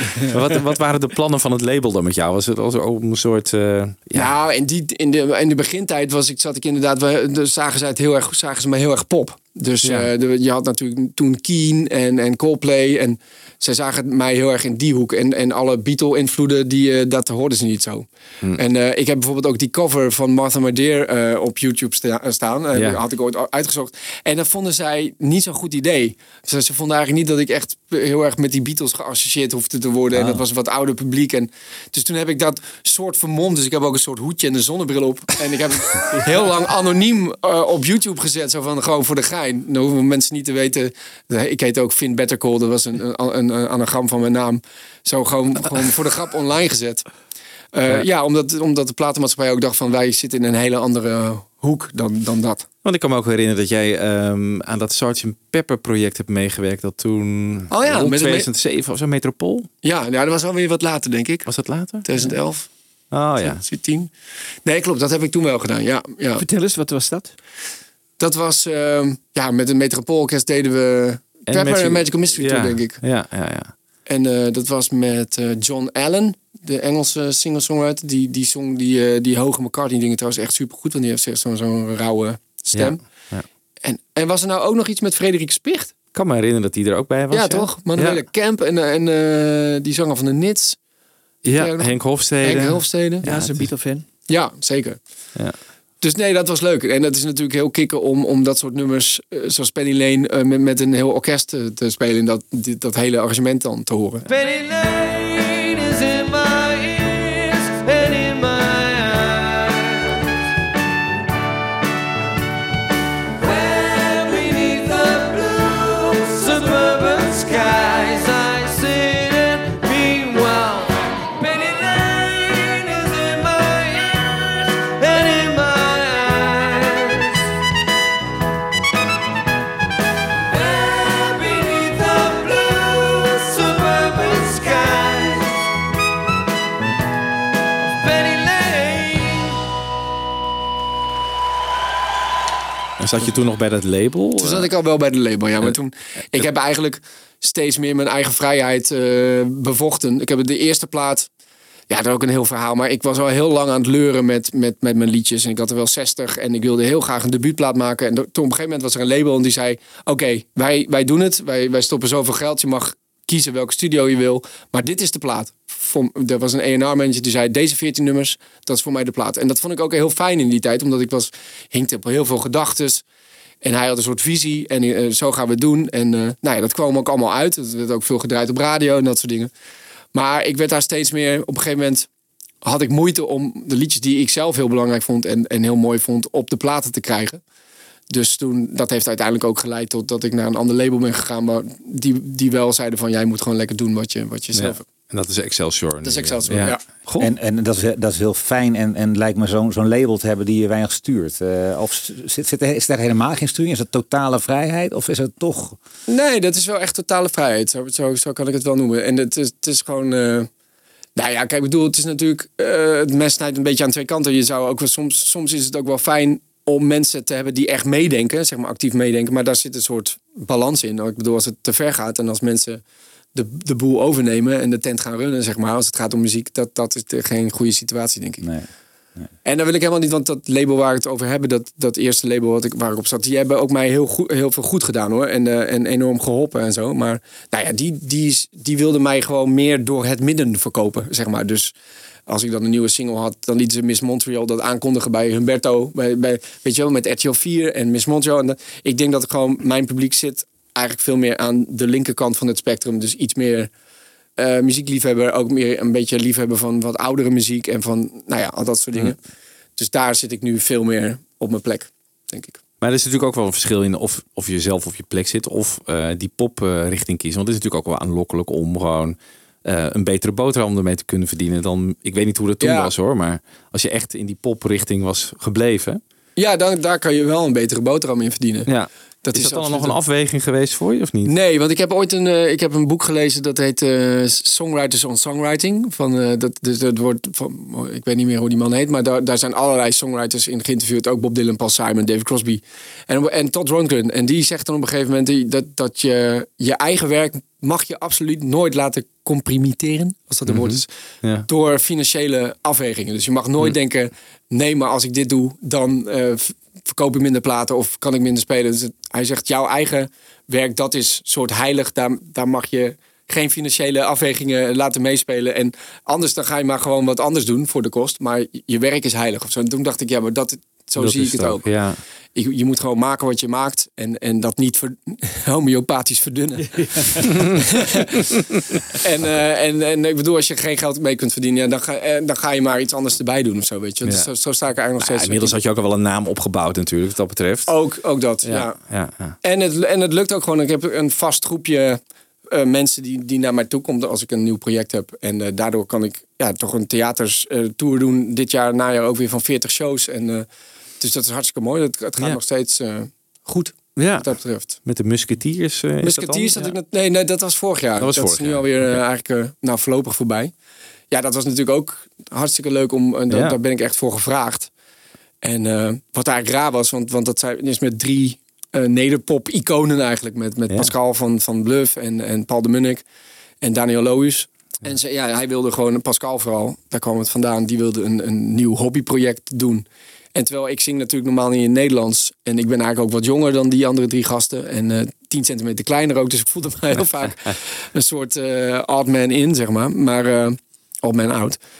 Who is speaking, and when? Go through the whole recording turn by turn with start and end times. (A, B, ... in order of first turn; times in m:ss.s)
0:00.3-0:04.3 A
0:04.2-0:47.0 B
0:09.8-0:10.1 A
0:22.7-0:23.0 A
0:47.7-0:52.7 B
0:52.8-0:59.7 A
0:57.7-0:58.5 B
0:59.8-1:01.5 B
1:01.4-1:02.0 A
1:02.0-1:02.7 B
1:03.1-1:03.6 A
1:03.4-1:04.1 B
1:04.6-1:06.4 B
1:06.4-1:07.3 C
1:08.2-1:13.0 B
1:11.5-1:13.7 A
1:14.1-1:23.0 B
1:22.7-1:23.4 A
1:23.8-1:25.9 B
1:26.1-1:28.2 A
1:27.3-1:30.8 B
1:31.4-1:33.2 B
1:31.4-1:33.6 A
1:33.2-1:34.0 C
1:34.3-1:35.0 B
1:36.0-1:44.2 B
1:44.2-1:50.2 D
1:53.4-2:07.5 D
2:10.5-2:15.6 D
2:17.8-2:19.6 D
2:23.0-2:24.7 A
2:24.4-2:31.3 B
2:31.9-2:53.0 B
2:53.6-2:59.5 B
3:00.1-3:02.1 B
3:02.6-3:07.4 B
3:08.1-3:14.8 B
3:14.5-3:17.3 A
3:16.0-3:16.8 B
3:17.2-3:25.8 E
3:26.1-3:30.5 B
3:31.2-3:42.8 B
3:43.3-3:48.5 B
3:48.4-3:49.3 E
3:49.4-4:01.7 B
4:02.3-4:13.7 B
4:14.4-4:19.2 B
4:19.8-4:22.6 B
4:22.8-4:36.0 A
4:32.6-4:32.9 B
4:36.4-4:38.7 B
4:38.6-4:41.3 A
4:39.2-4:40.0 B
4:41.2-5:00.9 B
5:00.5-5:01.5 A
5:01.5-5:21.7 B
5:21.0-5:22.0 A
5:22.3-5:28.3 B
5:26.7-5:27.1 C
5:28.9-5:35.5 B
5:34.0-5:34.3 A
5:35.0-5:37.7 A
5:37.7-5:38.9 B
5:38.4-5:39.4 A
5:39.4-5:50.4 B
5:51.0-5:54.7 B
5:54.0-5:54.3 A
5:54.8-5:56.7 A
5:56.0-6:00.5 B
5:58.0-5:59.0 A
6:01.1-6:04.7 B
6:03.3-6:03.6 A
6:05.4-6:13.0 B
6:13.6-6:31.6 B